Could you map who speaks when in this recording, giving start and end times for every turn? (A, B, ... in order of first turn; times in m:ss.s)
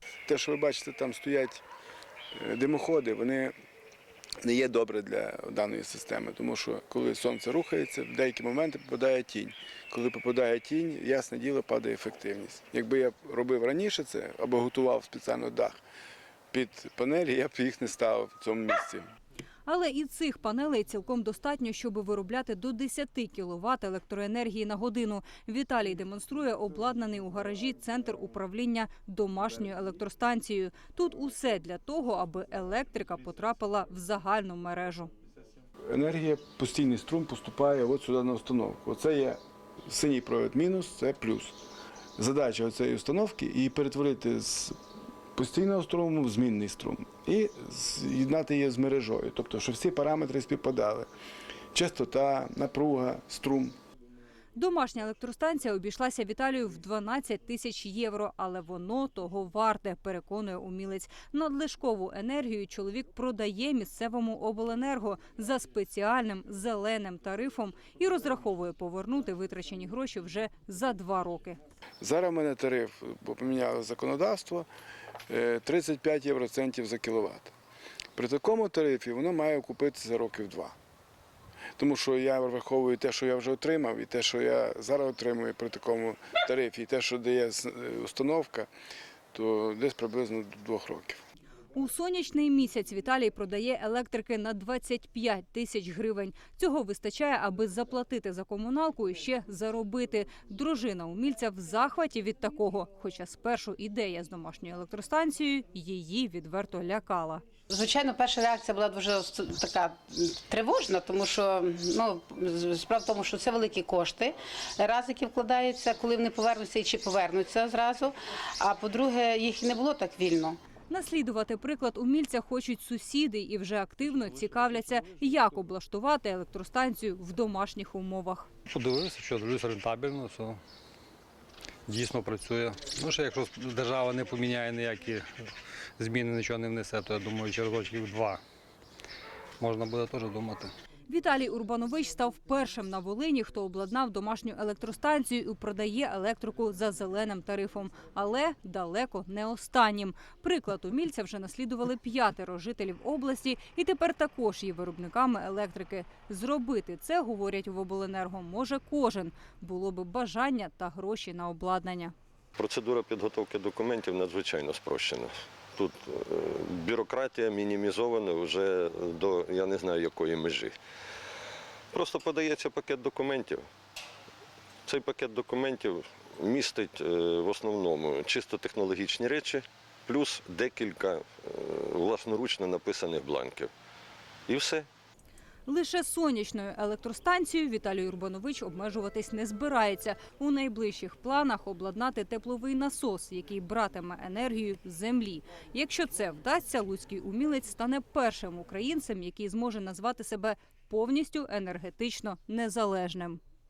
0:00.3-0:01.6 A
0:02.4-0:03.5 A
0:04.4-0:15.8 A
0:16.5-0:19.1 A
0:19.7-0:35.1 B
0:35.9-0:41.6 A
0:42.2-0:44.8 A
0:45.4-0:51.1 A
0:51.7-0:53.8 A
0:54.6-1:11.6 B
1:12.0-1:14.7 A
1:15.3-1:17.5 A
1:18.2-1:20.8 A
1:21.8-1:28.7 A
1:29.3-1:31.2 A
1:31.8-1:47.4 B
1:47.7-2:00.6 C
2:00.9-2:08.5 B
2:08.7-2:10.6 D
2:11.9-2:15.4 D
2:16.0-2:18.4 D
2:19.6-2:20.7 D
2:21.1-2:42.1 B
2:42.6-2:50.8 E
2:51.9-2:53.6 E
2:54.9-3:03.7 E
3:04.5-3:04.9 E
3:05.7-3:23.4 B